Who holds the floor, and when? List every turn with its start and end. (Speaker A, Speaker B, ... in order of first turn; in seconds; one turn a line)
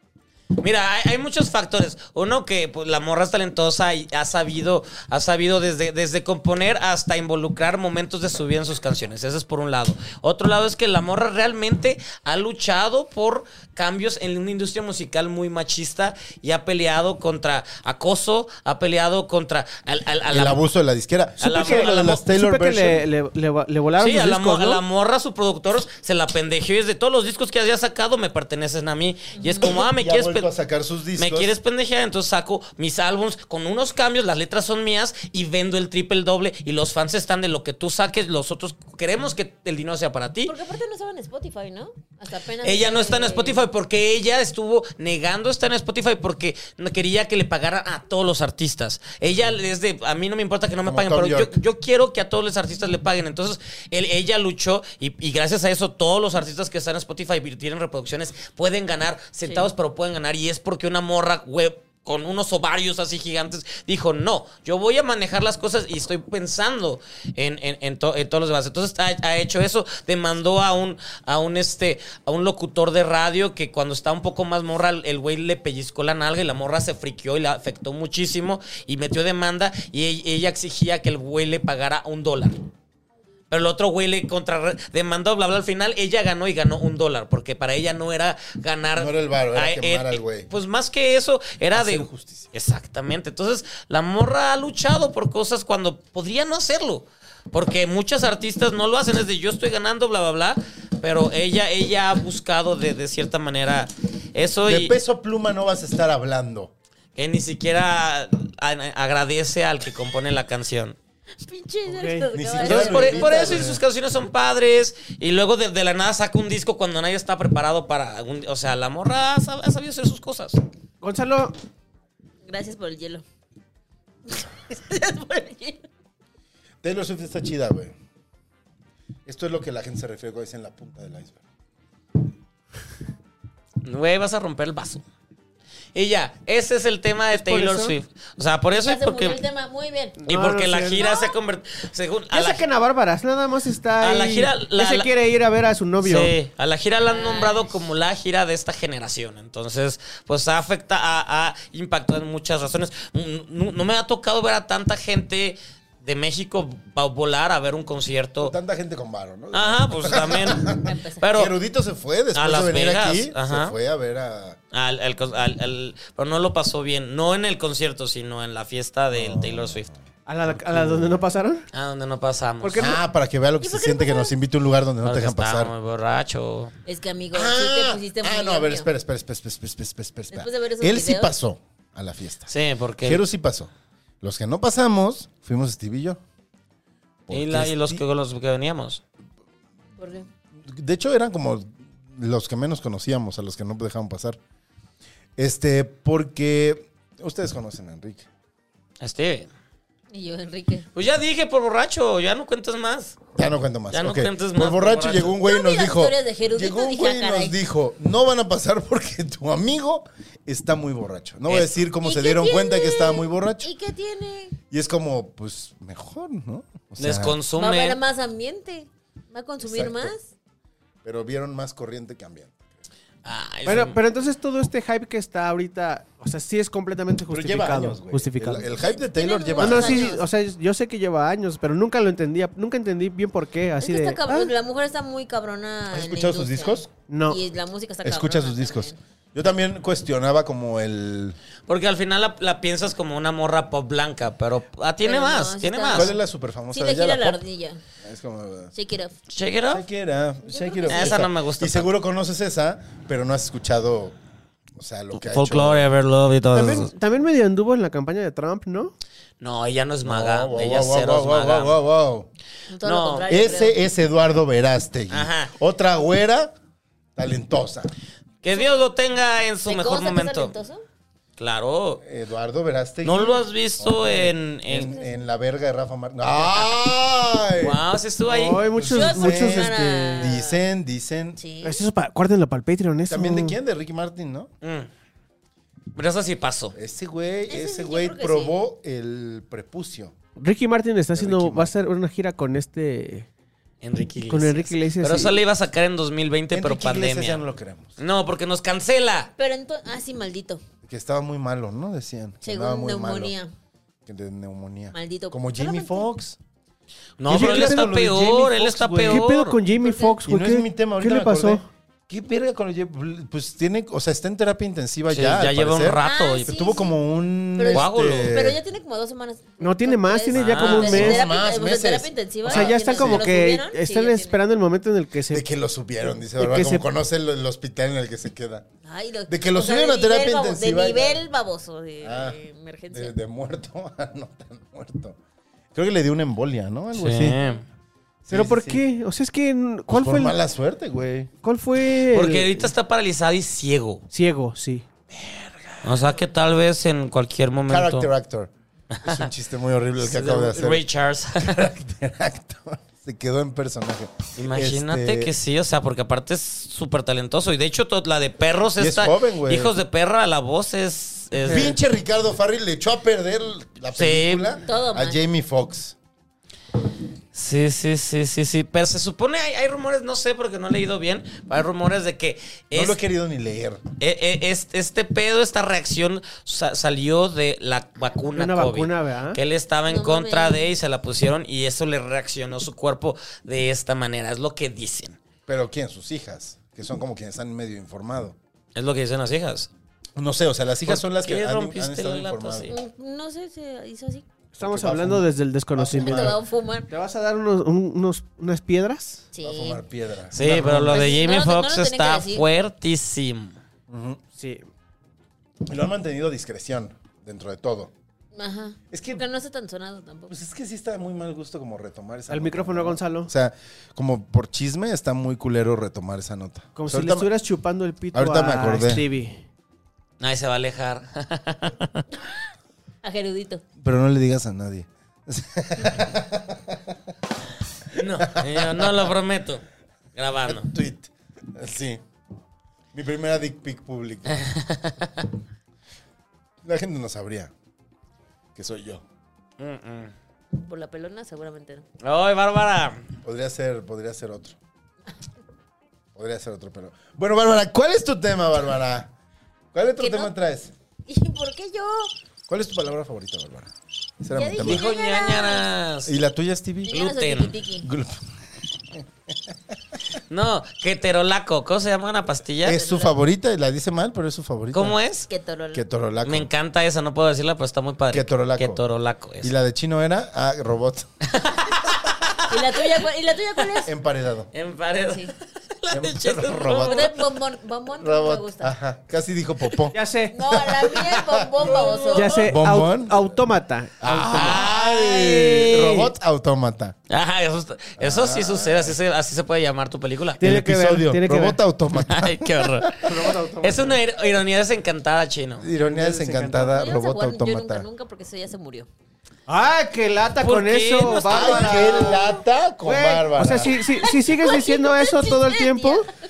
Speaker A: 0.6-20.6
Speaker B: 20.3-23.0
Speaker A: 21.4-22.2
Speaker C: 21.4-24.8
Speaker A: 24.0-30.5
Speaker D: 29.3-29.7
Speaker B: 29.8-31.5
Speaker A: 31.2-40.5
Speaker D: 40.5-43.6
Speaker A: 42.6-82.6
Speaker B: 50.8-51.6
Speaker A: 83.5-104.9
Speaker B: 88.9-90.5
Speaker B: 91.7-92.5
Speaker B: 104.6-106.7
Speaker A: 107.1-111.0
Speaker D: 111.4-113.6
Speaker C: 111.9-112.3
Speaker B: 112.3-113.8
Speaker A: 112.6-120.6
Speaker C: 121.0-121.5
Speaker D: 122.4-123.2
Speaker D: 124.3-125.8
Speaker B: 126.8-127.9
Speaker B: 129.2-131.4
Speaker A: 133.8-135.0
Speaker A: 135.9-139.4
Speaker C: 137.3-137.9
Speaker D: 138.8-140.2
Speaker C: 140.2-141.1
Speaker A: 140.3-142.6
Speaker D: 140.9-141.3
Speaker C: 142.3-146.3
Speaker A: 144.0-145.1
Speaker A: 146.0-158.5
Speaker D: 147.1-147.7
Speaker B: 158.4-164.6
Speaker A: 159.5-161.5
Speaker D: 160.8-161.3
Speaker A: 162.3-163.7
Speaker A: 164.7-169.9
Speaker B: 169.1-171.2
Speaker C: 170.2-171.6
Speaker A: 171.7-172.9
Speaker C: 172.6-173.0
Speaker B: 172.8-175.7
Speaker D: 173.6-174.3
Speaker A: 175.0-176.7
Speaker D: 176.8-178.9
Speaker B: 177.3-183.7
Speaker D: 180.3-181.3
Speaker A: 182.5-183.2
Speaker B: 184.2-186.2
Speaker B: 187.3-188.0
Speaker A: 187.3-189.0
Speaker D: 190.0-190.3
Speaker B: 190.6-194.4
Speaker B: 195.4-198.3
Speaker A: 199.0-199.5
Speaker D: 200.1-200.8
Speaker A: 200.9-203.2
Speaker B: 203.3-213.7
Speaker A: 203.9-205.3
Speaker D: 205.4-207.6
Speaker A: 211.5-211.7
Speaker D: 212.0-214.6
Speaker B: 214.7-217.4
Speaker A: 217.0-218.0
Speaker D: 217.6-220.3
Speaker B: 219.6-220.1
Speaker B: 221.0-222.6
Speaker A: 223.2-224.0
Speaker C: 223.7-228.7
Speaker B: 227.3-230.1
Speaker D: 228.7-230.2
Speaker C: 229.6-234.4
Speaker D: 233.8-239.0
Speaker B: 235.9-236.9
Speaker C: 237.1-237.4
Speaker B: 238.0-241.4
Speaker A: 241.7-246.1
Speaker D: 245.0-246.1
Speaker B: 245.9-247.4
Speaker D: 246.7-247.8
Speaker B: 248.0-248.7
Speaker D: 248.7-249.1
Speaker A: 249.3-249.8
Speaker B: 249.7-254.2
Speaker D: 250.4-251.2
Speaker A: 250.9-251.9
Speaker B: 254.8-255.9
Speaker A: 255.2-256.9
Speaker C: 256.5-258.9
Speaker A: 259.4-261.7
Speaker B: 260.0-262.3
Speaker D: 262.7-263.8
Speaker A: 262.8-263.3
Speaker B: 263.3-266.5
Speaker A: 265.1-265.5
Speaker B: 267.1-267.9
Speaker A: 268.4-270.5
Speaker D: 269.6-270.8
Speaker A: 271.4-272.0
Speaker B: 272.0-277.8
Speaker A: 273.0-274.9
Speaker A: 276.4-276.7
Speaker A: 277.6-278.7
Speaker C: 278.3-280.3
Speaker B: 278.7-281.4
Speaker D: 278.9-280.6
Speaker D: 281.4-281.8
Speaker C: 281.6-283.6
Speaker B: 283.1-284.5
Speaker A: 284.6-284.9
Speaker A: 285.9-286.8
Speaker B: 286.7-290.1
Speaker D: 287.5-288.5
Speaker C: 290.4-293.3
Speaker B: 291.1-291.7
Speaker A: 293.8-297.4
Speaker C: 294.3-295.4
Speaker B: 296.5-297.9
Speaker A: 298.0-299.3
Speaker D: 299.4-300.6
Speaker B: 300.8-303.3
Speaker D: 302.4-303.5
Speaker B: 304.1-306.4
Speaker D: 304.9-306.1
Speaker A: 307.2-309.6
Speaker B: 307.3-309.3
Speaker C: 307.3-307.9
Speaker C: 309.1-311.6
Speaker D: 309.8-310.2
Speaker B: 310.2-318.6
Speaker A: 315.1-316.5
Speaker D: 316.0-316.9
Speaker D: 317.5-324.4
Speaker A: 317.7-318.3
Speaker C: 319.6-321.2
Speaker A: 320.3-321.1
Speaker B: 320.7-323.4
Speaker C: 322.4-325.4
Speaker B: 325.3-328.6
Speaker C: 326.4-326.9
Speaker D: 328.8-333.1
Speaker B: 329.3-331.2
Speaker B: 332.0-335.2
Speaker B: 335.7-337.4
Speaker A: 336.9-337.6
Speaker D: 337.4-337.6
Speaker B: 338.2-338.8
Speaker C: 338.3-340.3
Speaker B: 339.9-341.3
Speaker C: 341.4-342.7
Speaker A: 341.9-344.0
Speaker C: 344.1-344.8
Speaker B: 345.1-346.1
Speaker A: 345.8-348.1
Speaker B: 347.7-348.5
Speaker A: 348.9-349.3
Speaker B: 349.0-350.8
Speaker A: 350.0-351.6
Speaker B: 351.4-355.3
Speaker A: 354.4-361.8
Speaker B: 358.8-359.7
Speaker C: 361.4-361.7
Speaker B: 361.5-365.9
Speaker A: 363.9-364.6
Speaker D: 364.6-365.2
Speaker A: 367.3-373.0
Speaker B: 372.7-373.8
Speaker A: 374.0-385.2
Speaker C: 378.3-379.4
Speaker D: 379.9-380.7
Speaker B: 385.5-388.4
Speaker A: 388.7-389.7
Speaker B: 390.2-392.7
Speaker A: 390.8-392.8
Speaker D: 392.7-394.2
Speaker C: 394.5-399.2
Speaker B: 394.6-396.4
Speaker D: 395.9-396.9
Speaker D: 399.3-399.8
Speaker B: 399.4-401.1
Speaker A: 400.3-403.6
Speaker D: 400.9-402.4
Speaker B: 403.9-404.2
Speaker C: 404.4-404.6
Speaker B: 405.6-407.9
Speaker D: 408.3-410.3
Speaker B: 408.9-409.2
Speaker B: 410.3-417.3
Speaker C: 412.3-413.3
Speaker C: 416.8-419.4
Speaker B: 418.1-419.1
Speaker A: 420.2-422.0
Speaker D: 423.0-423.6
Speaker B: 423.8-427.1
Speaker A: 427.9-430.7
Speaker B: 427.9-429.1
Speaker B: 430.4-432.0
Speaker B: 432.9-434.5
Speaker A: 434.4-435.1
Speaker B: 436.6-437.5
Speaker B: 438.6-439.0
Speaker A: 439.6-440.1
Speaker D: 440.5-441.8
Speaker A: 442.0-443.0
Speaker B: 443.2-444.6
Speaker B: 446.1-449.1
Speaker B: 449.7-450.7
Speaker D: 450.0-450.3
Speaker D: 451.1-452.1
Speaker B: 452.5-454.9
Speaker D: 454.3-455.7
Speaker A: 454.6-456.1
Speaker B: 456.1-457.0
Speaker D: 456.9-457.9
Speaker A: 456.9-457.5
Speaker B: 457.8-458.2
Speaker B: 458.9-459.5
Speaker A: 460.3-463.1
Speaker B: 462.6-465.0
Speaker A: 464.7-465.3
Speaker D: 465.3-465.8
Speaker B: 465.7-466.5
Speaker A: 466.2-469.5
Speaker B: 468.1-468.8
Speaker B: 469.4-471.1
Speaker A: 471.3-473.0
Speaker D: 472.5-473.9
Speaker B: 473.8-474.5
Speaker A: 474.5-477.1
Speaker B: 475.9-477.1
Speaker D: 476.8-478.7
Speaker B: 478.0-479.9
Speaker C: 479.9-480.3
Speaker D: 480.3-482.4
Speaker B: 480.5-481.5
Speaker A: 481.6-482.5
Speaker C: 482.1-484.6
Speaker B: 482.5-483.4
Speaker B: 484.0-486.9
Speaker A: 484.3-486.1
Speaker A: 487.1-490.4
Speaker B: 488.0-489.0
Speaker C: 490.4-491.6
Speaker B: 490.4-493.2
Speaker A: 491.9-495.7
Speaker C: 493.0-494.0
Speaker B: 495.6-497.9
Speaker C: 495.7-496.8
Speaker D: 496.7-498.9
Speaker C: 499.5-506.1
Speaker A: 500.4-502.1
Speaker B: 501.3-503.8
Speaker D: 504.0-506.0